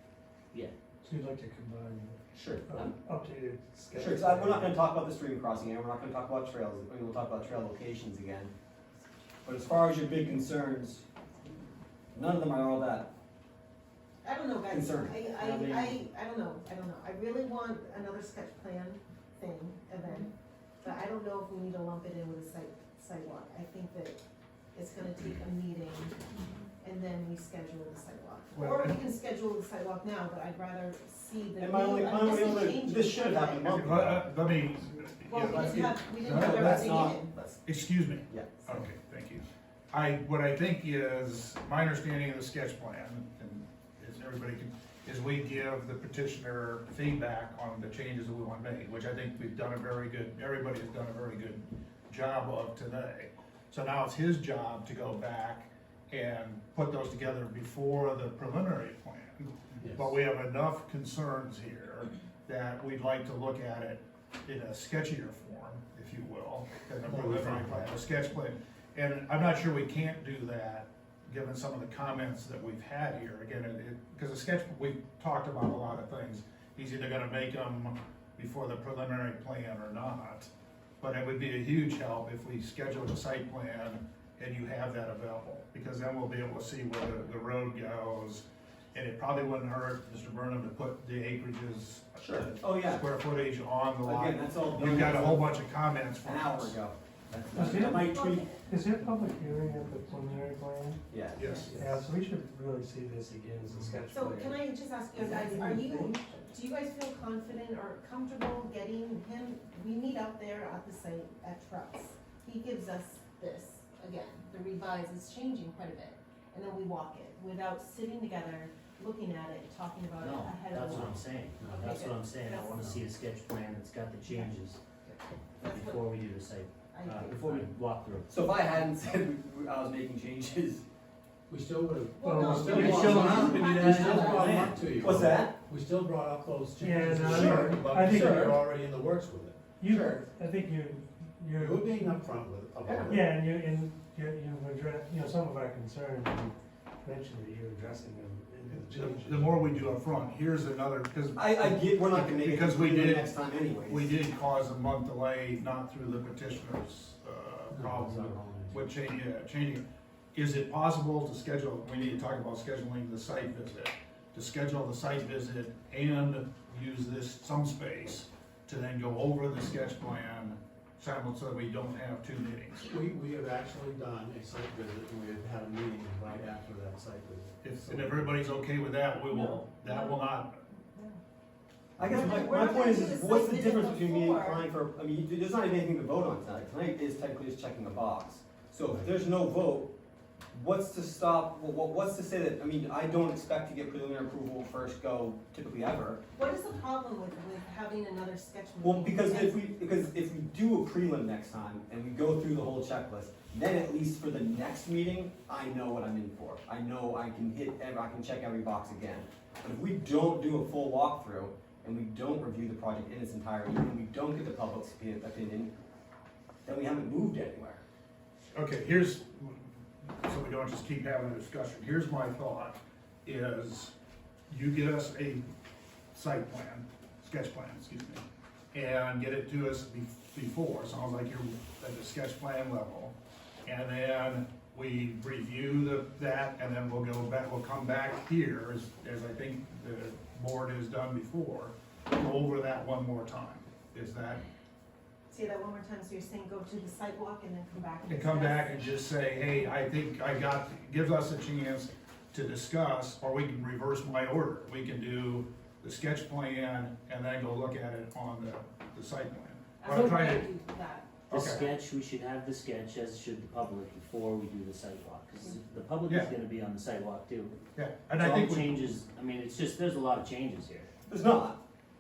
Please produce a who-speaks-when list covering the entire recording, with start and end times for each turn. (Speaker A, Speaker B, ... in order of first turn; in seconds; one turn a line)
Speaker A: 1.0-4.8
Speaker B: 2.3-3.0
Speaker B: 4.0-8.5
Speaker B: 9.4-11.1
Speaker B: 12.1-13.1
Speaker C: 14.2-20.3
Speaker B: 14.7-15.2
Speaker D: 15.3-16.0
Speaker C: 20.8-24.2
Speaker C: 24.7-26.2
Speaker C: 26.8-33.9
Speaker E: 28.5-29.0
Speaker B: 31.6-34.3
Speaker E: 33.8-80.5
Speaker C: 35.3-37.3
Speaker B: 35.5-37.6
Speaker B: 38.3-38.9
Speaker F: 59.8-60.1
Speaker F: 67.1-67.9
Speaker E: 81.0-96.8
Speaker B: 92.2-93.0
Speaker B: 94.0-95.6
Speaker B: 96.2-98.5
Speaker A: 97.5-101.0
Speaker C: 97.7-98.7
Speaker B: 101.1-101.9
Speaker E: 101.4-101.8
Speaker C: 101.4-101.7
Speaker A: 101.7-104.6
Speaker C: 104.1-122.8
Speaker A: 105.2-106.4
Speaker D: 120.2-124.8
Speaker F: 121.6-122.0
Speaker F: 122.6-123.0
Speaker C: 124.3-124.5
Speaker C: 125.6-126.1
Speaker D: 125.7-128.3
Speaker C: 126.9-127.4
Speaker B: 127.3-127.7
Speaker B: 128.3-130.8
Speaker F: 131.5-139.6
Speaker C: 132.2-134.5
Speaker A: 132.2-132.9
Speaker D: 132.6-134.9
Speaker B: 135.0-135.6
Speaker A: 136.8-138.6
Speaker B: 137.3-138.6
Speaker A: 139.8-142.2
Speaker B: 139.8-140.3
Speaker F: 141.6-143.3
Speaker B: 142.8-143.1
Speaker A: 143.1-150.0
Speaker E: 148.8-153.3
Speaker B: 151.4-154.1
Speaker E: 153.9-172.9
Speaker F: 157.7-158.8
Speaker F: 172.8-178.3
Speaker E: 177.6-180.6
Speaker C: 179.4-180.2
Speaker C: 180.8-181.2
Speaker B: 182.0-189.9
Speaker C: 182.1-184.7
Speaker B: 190.5-196.2
Speaker C: 196.3-199.6
Speaker B: 198.8-215.7
Speaker B: 216.7-217.8
Speaker E: 218.5-223.9
Speaker E: 224.5-225.5
Speaker E: 226.1-233.1
Speaker E: 233.7-244.4
Speaker C: 245.3-248.8
Speaker E: 248.1-260.4
Speaker C: 259.8-261.7
Speaker D: 259.9-260.1
Speaker D: 261.3-267.6
Speaker E: 261.3-261.6
Speaker E: 267.8-268.8
Speaker D: 268.2-270.9
Speaker B: 271.1-271.6